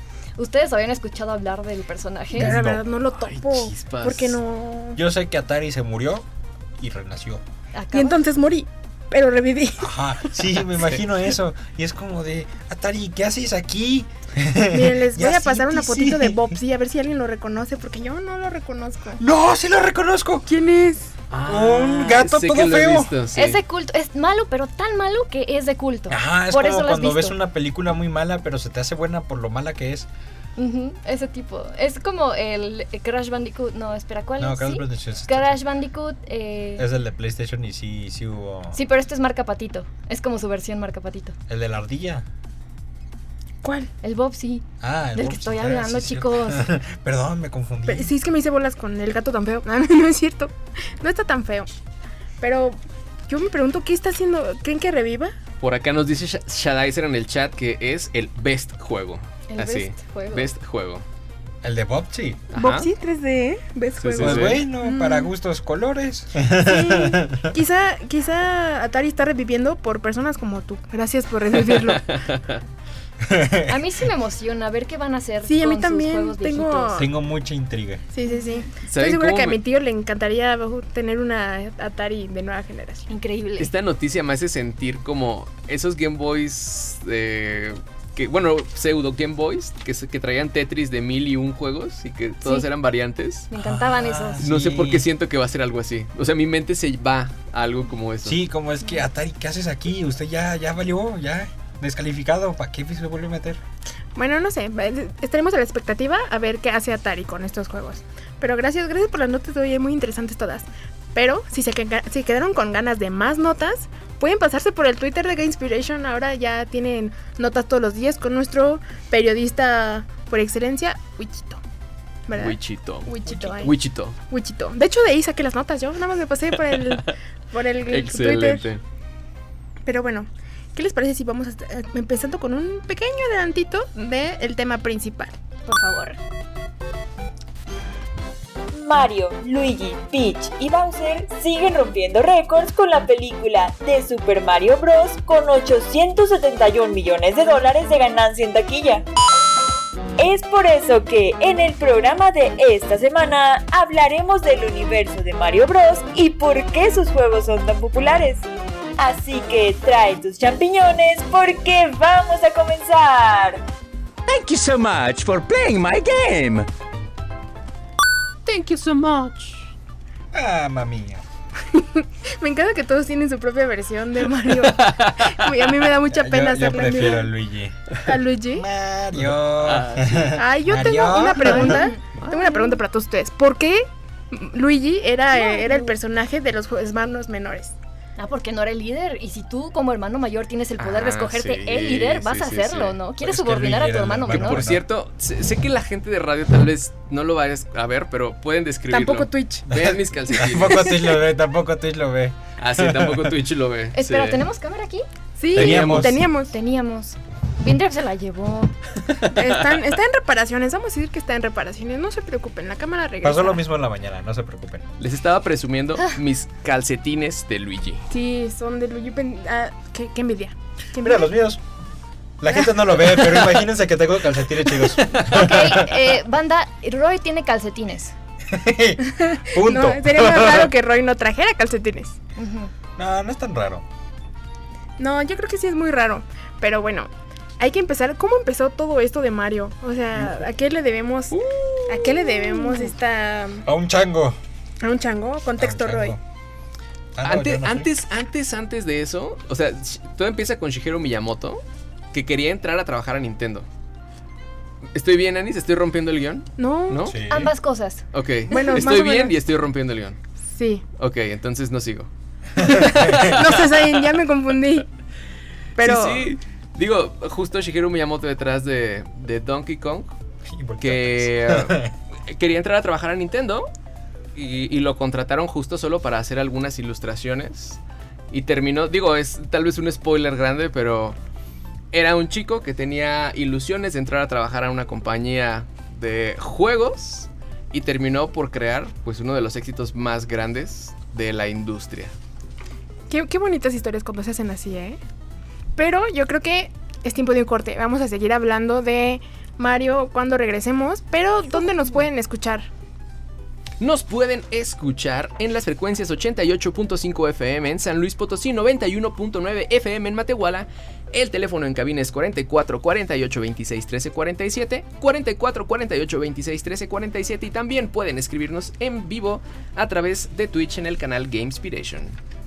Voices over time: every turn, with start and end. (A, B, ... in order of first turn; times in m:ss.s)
0:00.4-0:02.6 A
0:02.3-0:05.0 B
0:02.3-0:02.8 C
0:03.2-0:04.4 D
0:05.0-0:06.3 C
0:06.8-0:07.4 C
0:07.7-0:08.2 A
0:07.9-0:09.9 B
0:09.8-0:16.6 C
0:14.7-0:19.2 B
0:19.2-0:20.5 C
0:20.5-0:21.1 B
0:21.3-0:23.6 D
0:21.4-0:23.1 C
0:23.4-0:27.4 A
0:26.1-0:30.1 C
0:30.6-0:36.8 A
0:34.4-0:35.6 C
0:36.8-0:38.8 C
0:38.7-0:41.4 A
0:41.5-0:42.2 C
0:43.6-0:43.9 B
0:44.0-0:46.7 A
0:44.8-0:48.1 C
0:47.9-0:51.7 B
0:52.4-0:55.3 B
0:55.6-1:01.0 D
0:59.5-1:00.5 A
1:01.6-1:02.4 C
1:02.5-1:02.9 D
1:02.6-1:05.3 B
1:04.0-1:04.6 D
1:04.2-1:07.5 C
1:06.6-1:12.2 B
1:11.8-1:12.6 D
1:13.2-1:13.8 C
1:13.7-1:17.0 A
1:15.4-1:17.1 B
1:17.0-1:18.0 C
1:18.1-1:23.1 B
1:18.8-1:19.6 D
1:23.1-1:23.7 A
1:23.6-1:33.5 D
1:33.5-1:34.4 A
1:33.5-1:35.1 C
1:34.4-1:38.4 D
1:38.2-1:43.6 C
1:44.2-2:01.6 B
2:02.3-2:03.8 B
2:02.3-2:04.2 D
2:04.3-2:08.7 B
2:06.6-2:07.1 D
2:07.9-2:08.8 D
2:09.9-2:15.4 B
2:15.7-2:16.2 A
2:18.7-2:29.1 E
2:30.2-2:38.4 E
2:39.0-2:43.6 E
2:44.3-2:46.7 F
2:48.5-2:49.6 D
2:50.3-2:51.2 C
2:51.7-2:57.3 B
2:54.6-2:55.4 D
2:56.1-2:57.9 C
2:58.0-2:58.7 B
2:58.5-3:01.9 C
2:59.2-3:00.4 D
3:00.3-3:07.8 B
3:01.6-3:02.0 A
3:02.2-3:02.7 D
3:05.3-3:06.0 A
3:08.2-3:14.6 A
3:10.8-3:13.0 D
3:13.2-3:14.8 C
3:14.3-3:21.0 D
3:18.9-3:19.7 B
3:19.7-3:23.4 C
3:22.6-3:24.4 D
3:23.9-3:25.1 A
3:25.4-3:26.6 B
3:25.5-3:26.2 C
3:25.6-3:26.1 D
3:26.5-3:28.7 A
3:29.2-3:29.6 D
3:29.3-3:33.6 B
3:33.2-3:34.9 C
3:35.0-3:38.1 D
3:38.1-3:41.3 B
3:41.0-3:41.6 C
3:42.4-3:46.1 C
3:43.2-3:43.5 D
3:45.0-3:45.4 D
3:45.3-3:48.1 A
3:48.5-3:50.7 C
3:49.2-3:52.2 B
3:52.4-3:52.7 A
3:53.0-3:53.8 C
3:55.0-4:01.4 B
4:00.1-4:00.4 C
4:01.3-4:02.7 D
4:01.9-4:03.7 B
4:03.6-4:04.4 C
4:04.8-4:06.2 B
4:05.6-4:06.2 C
4:07.2-4:07.9 C
4:07.2-4:11.6 D
4:12.1-4:13.7 D
4:15.0-4:17.2 D
4:16.6-4:17.1 B
4:17.0-4:17.5 C
4:17.3-4:18.0 A
4:18.1-4:20.2 D
4:18.5-4:19.4 B
4:20.5-4:20.8 B
4:21.0-4:24.0 D
4:22.8-4:24.9 B
4:23.0-4:23.2 C
4:25.8-4:26.3 B
4:25.8-4:30.1 D
4:30.4-4:31.9 C
4:30.8-4:33.7 D
4:34.4-4:37.8 D
4:38.3-4:41.2 D
4:41.9-4:52.1 D
4:53.1-4:55.0 B
4:55.8-5:02.7 B
5:03.8-5:22.2 D